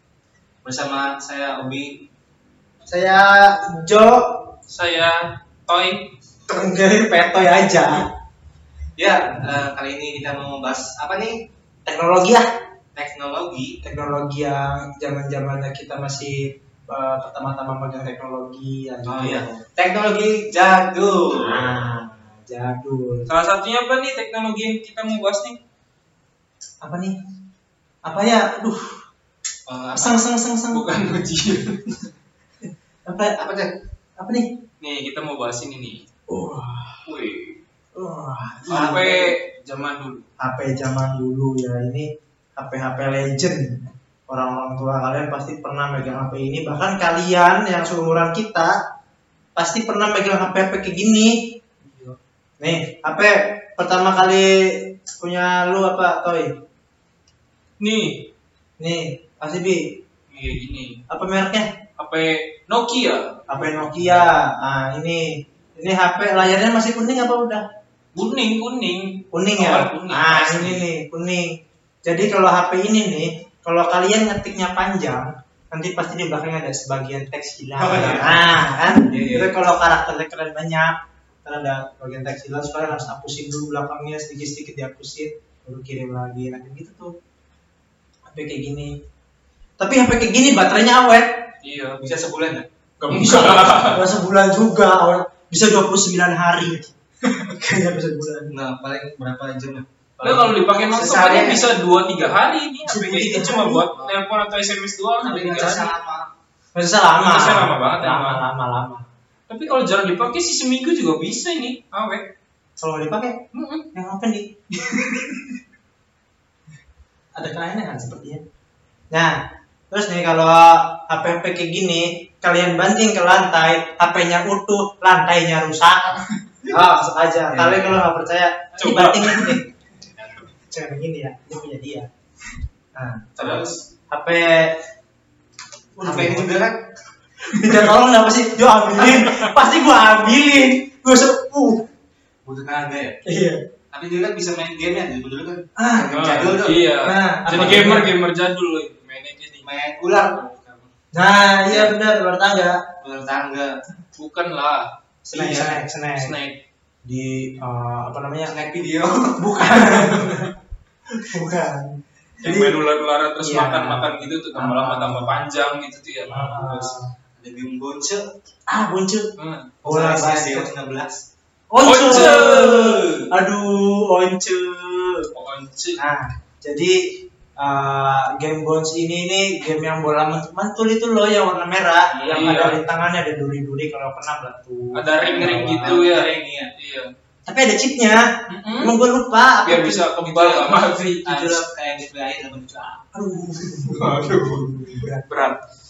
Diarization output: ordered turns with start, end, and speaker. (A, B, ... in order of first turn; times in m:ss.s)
0:00.6-0:02.1 A
0:02.9-0:04.5 B
0:04.7-0:06.1 C
0:06.5-0:08.1 B
0:09.0-0:11.4 A
0:11.8-0:12.4 B
0:12.9-0:13.8 A
0:13.8-0:19.5 B
0:19.0-0:21.8 A
0:21.4-0:23.3 B
0:23.3-0:25.6 C
0:26.8-0:27.1 B
0:28.0-0:29.0 B
0:29.7-0:30.3 A
0:29.9-0:30.9 B
0:30.7-0:32.1 C
0:32.6-0:33.4 B
0:33.4-0:33.7 A
0:34.2-0:34.5 B
0:34.8-0:36.0 C
0:36.3-0:37.0 B
0:37.0-0:37.6 C
0:37.9-0:39.2 B
0:38.6-0:40.2 C
0:40.4-0:48.8 B
0:49.6-0:51.4 B
0:51.8-0:52.2 C
0:52.6-0:56.5 B
0:57.8-0:58.3 C
0:58.8-1:00.0 B
1:00.3-1:01.0 C
1:01.1-1:01.7 B
1:02.0-1:03.3 C
1:03.5-1:07.6 B
1:08.1-1:10.9 C
1:09.3-1:27.1 B
1:17.8-1:18.4 C
1:19.1-1:19.6 C
1:28.3-1:28.9 B
1:29.8-1:31.3 B
1:31.6-1:32.0 C
1:32.0-1:32.7 A
1:33.0-1:34.1 C
1:33.0-1:36.9 B
1:37.5-1:38.5 B
1:38.5-1:41.7 A
1:40.2-1:45.9 C
1:42.8-1:43.9 B
1:43.9-1:44.2 A
1:45.2-1:46.3 A
1:46.7-1:49.0 B
1:47.2-1:48.4 C
1:49.5-1:52.2 C
1:52.8-1:55.5 B
1:53.5-1:53.8 C
1:57.3-1:58.4 B
1:59.1-1:59.4 B
1:59.9-2:09.7 B
2:07.5-2:08.0 A
2:08.8-2:09.6 C
2:10.0-2:10.5 A
2:10.7-2:12.1 B
2:12.9-2:14.8 B
2:13.4-2:13.9 A
2:16.0-2:16.5 B
2:16.0-2:16.9 A
2:17.4-2:21.9 B
2:17.6-2:17.9 C
2:19.0-2:19.5 C
2:22.4-2:23.2 A
2:23.2-2:23.6 B
2:23.9-2:26.9 A
2:25.8-2:26.1 B
2:26.1-2:29.7 C
2:27.0-2:28.1 B
2:29.6-2:30.9 A
2:31.1-2:32.8 B
2:33.0-2:33.7 A
2:34.2-2:34.9 C
2:35.2-2:36.3 B
2:35.3-2:35.8 A
2:36.2-2:36.6 C
2:37.0-2:38.6 B
2:38.4-2:39.7 A
2:39.4-2:40.5 B
2:39.8-2:40.5 C
2:41.2-2:42.8 B
2:42.4-2:46.9 C
2:43.4-2:45.4 B
2:46.3-2:47.1 B
2:47.4-2:48.2 A
2:48.7-2:49.3 B
2:49.4-2:49.7 C
2:49.8-2:50.7 B
2:49.8-2:51.2 A
2:51.7-2:55.3 B
2:51.8-2:53.3 C
2:55.3-2:56.0 C
2:56.0-2:57.0 B
2:57.6-3:06.0 B
3:02.1-3:02.8 C
3:04.9-3:07.1 C
3:05.2-3:06.7 A
3:07.4-3:10.1 B
3:08.5-3:09.0 C
3:09.6-3:11.4 C
3:10.2-3:13.0 A
3:11.3-3:11.6 B
3:13.1-3:15.2 B
3:13.7-3:15.6 C